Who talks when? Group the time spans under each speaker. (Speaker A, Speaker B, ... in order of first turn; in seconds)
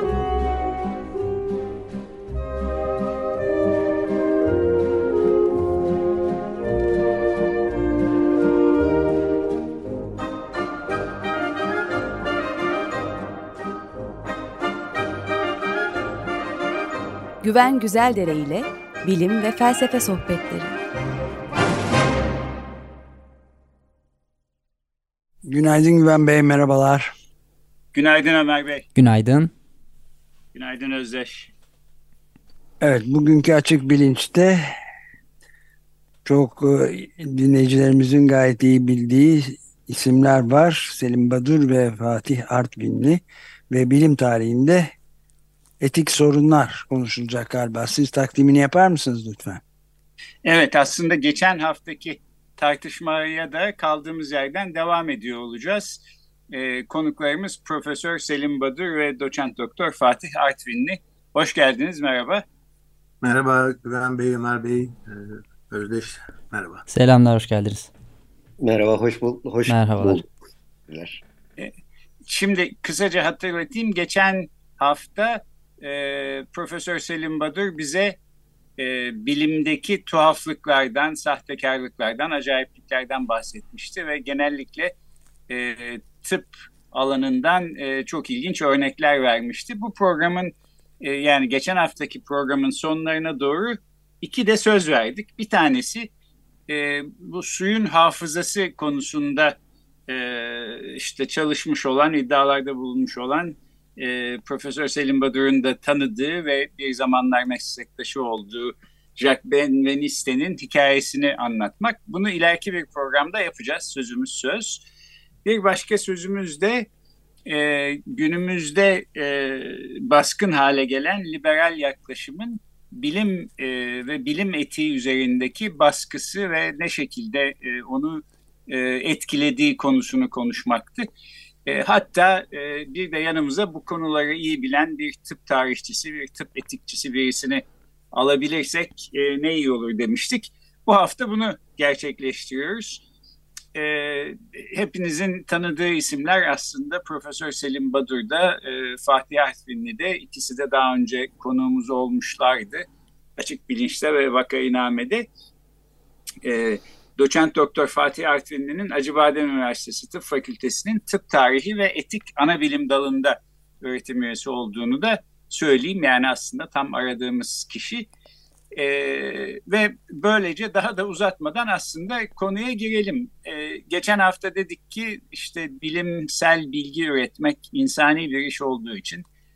Speaker A: 17.4-20.7
Speaker B: 25.4-27.1, 32.8-34.6, 36.2-44.9, 45.8-49.6
Speaker C: 27.9-28.8, 30.5-31.5, 50.4-62.4, 72.2-78.2, 78.8-84.9, 85.5-96.1, 96.7-99.6, 100.1-114.8, 115.4-116.9, 117.5-131.1, 131.6-143.0, 143.7-155.3, 156.4-168.1, 168.8-179.2
Speaker D: 28.9-29.5, 66.9-67.9, 69.7-70.2
Speaker E: 63.2-66.8
Speaker F: 68.6-70.3, 70.9-71.2